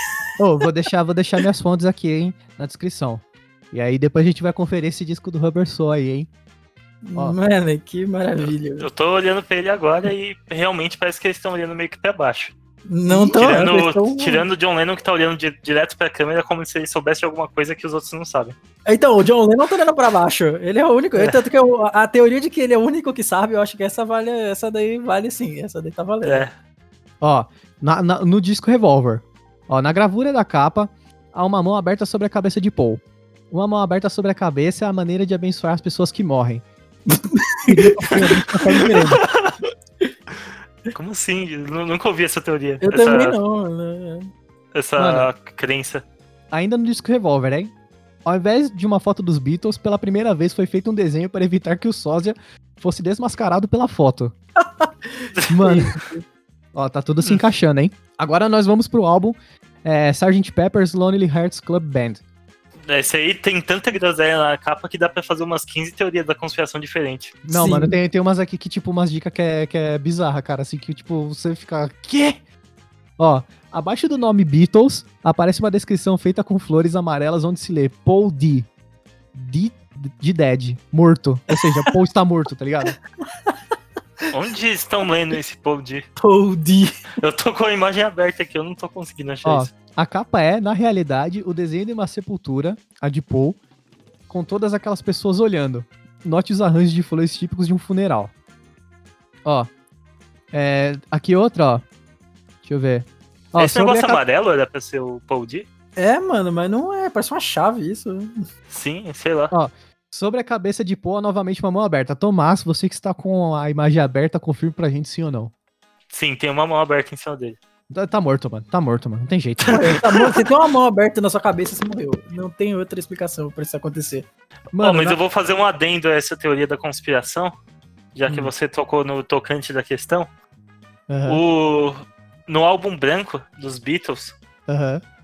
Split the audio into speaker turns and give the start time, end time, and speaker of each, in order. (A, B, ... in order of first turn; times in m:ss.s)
0:00.4-0:06.3 A
0:07.0-0:08.9 B
0:08.8-0:12.5 C
0:12.9-0:14.4 B
0:13.1-0:18.6 C
0:18.9-0:26.5 B
0:26.2-0:26.5 C
0:27.2-0:36.6 A
0:37.1-0:39.2 B
0:37.7-0:39.2 A
0:40.9-0:43.4 C
0:42.8-0:44.3 B
0:44.7-0:46.0 C
0:45.0-0:45.3 A
0:46.5-0:47.7 A
0:48.2-0:54.4 A
0:55.5-0:55.9 A
0:55.7-0:56.1 B
0:56.7-1:02.2 A
1:02.9-1:07.4 C
1:07.5-1:12.4 A
1:07.5-1:08.0 B
1:13.2-1:18.7 A
1:19.3-1:23.0 A
1:21.5-1:21.9 B
1:24.3-1:26.1 C
1:26.2-1:26.9 B
1:27.2-1:29.7 C
1:29.4-1:33.6 A
1:34.3-1:38.3 A
1:39.4-1:39.7 A
1:40.5-1:41.8 A
1:42.6-1:44.2 A
1:43.6-1:45.7 C
1:46.0-1:48.5 B
1:48.7-1:49.5 C
1:49.5-1:55.5 A
1:56.1-1:57.6 C
1:57.9-2:00.0 A
1:59.6-2:00.4 C
1:59.7-2:04.3 B
2:04.7-2:05.2 A
2:04.8-2:07.5 C
2:08.2-2:10.3 C
2:11.1-2:11.4 A
2:11.3-2:14.4 C
2:14.7-2:15.0 A